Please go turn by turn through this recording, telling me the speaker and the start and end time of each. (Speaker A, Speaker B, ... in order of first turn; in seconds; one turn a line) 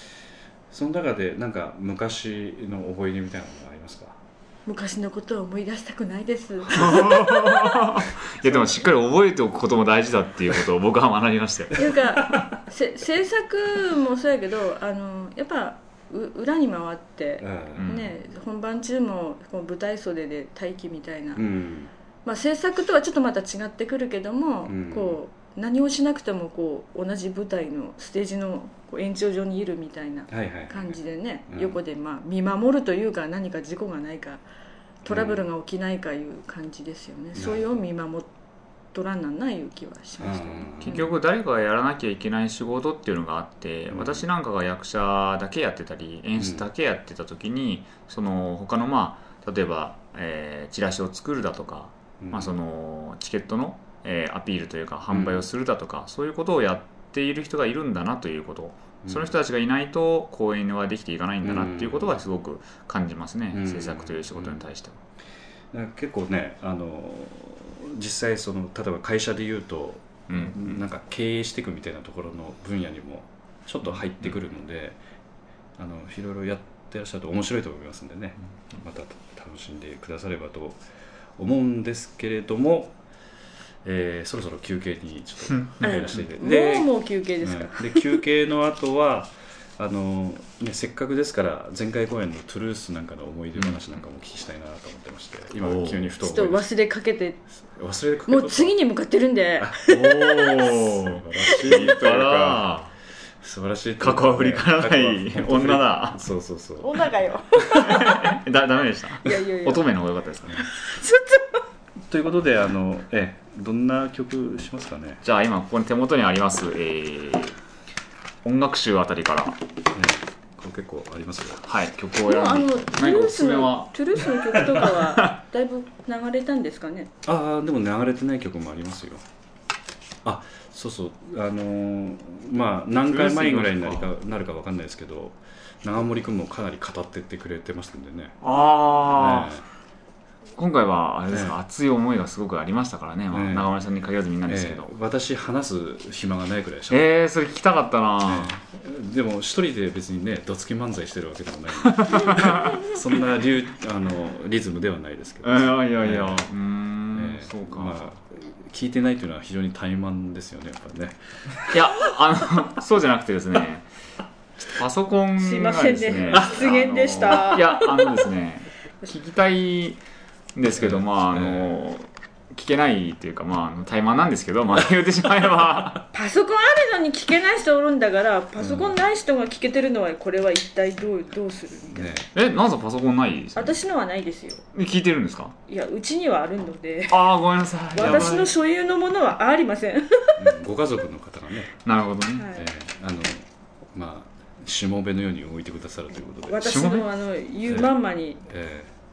Speaker A: 0.7-4.2
Speaker B: 4.7-7.9
Speaker C: 6.8-11.8
Speaker A: 8.4-8.8
Speaker B: 11.7-21.4
Speaker A: 17.4-17.9
Speaker C: 17.8-18.1
Speaker A: 21.3-21.9
Speaker B: 22.2-34.4
Speaker A: 24.7-25.2
Speaker A: 30.3-31.0
Speaker A: 31.5-31.8
Speaker B: 35.0-38.3
Speaker A: 35.0-35.5
Speaker A: 37.3-37.6
Speaker B: 38.9-41.1
Speaker A: 40.2-41.0
Speaker C: 40.8-65.0
Speaker A: 43.9-44.2
Speaker A: 46.4-46.6
Speaker A: 52.2-52.5
Speaker A: 55.1-55.5
Speaker A: 59.0-59.3
Speaker A: 61.4-62.2
Speaker A: 63.5-64.6
Speaker A: 65.7-75.0
Speaker C: 70.3-70.8
Speaker A: 75.8-80.8
Speaker A: 81.4-83.0
Speaker A: 83.8-96.7
Speaker B: 85.8-88.2
Speaker C: 95.6-96.1
Speaker B: 96.2-97.4
Speaker A: 97.7-98.8
Speaker B: 98.3-100.7
Speaker C: 99.8-102.9
Speaker A: 100.6-102.7
Speaker B: 101.5-101.9
Speaker A: 103.4-107.1
Speaker C: 104.0-106.2
Speaker B: 106.8-108.4
Speaker C: 107.7-110.6
Speaker B: 109.2-109.8
Speaker B: 110.7-111.6
Speaker A: 112.1-115.2
Speaker C: 115.2-117.5
Speaker C: 118.4-119.6
Speaker A: 119.9-121.6
Speaker C: 121.7-125.4
Speaker B: 122.2-127.1
Speaker A: 127.2-129.2
Speaker A: 130.2-138.4
Speaker C: 133.1-134.1
Speaker C: 138.4-139.6
Speaker A: 139.1-139.6
Speaker C: 140.6-144.9
Speaker A: 141.3-141.6
Speaker A: 143.3-143.7
Speaker A: 144.5-147.0
Speaker C: 146.9-148.6
Speaker A: 148.2-156.4
Speaker C: 151.8-152.9
Speaker C: 155.4-158.1
Speaker A: 157.1-161.2
Speaker C: 161.7-163.8
Speaker C: 164.7-170.0
Speaker B: 165.4-168.2
Speaker C: 170.5-176.0
Speaker A: 170.7-171.7
Speaker B: 176.1-182.1
Speaker A: 178.6-178.9
Speaker A: 181.9-182.3
Speaker C: 182.3-183.8
Speaker B: 183.6-184.6
Speaker C: 184.7-185.5
Speaker B: 185.7-187.2
Speaker C: 187.1-188.5
Speaker B: 187.9-190.4
Speaker A: 188.0-188.4
Speaker A: 190.4-191.7
Speaker C: 191.8-192.5
Speaker B: 192.4-192.7
Speaker A: 192.5-196.7
Speaker B: 196.4-198.4
Speaker C: 196.6-197.1
Speaker A: 198.4-198.9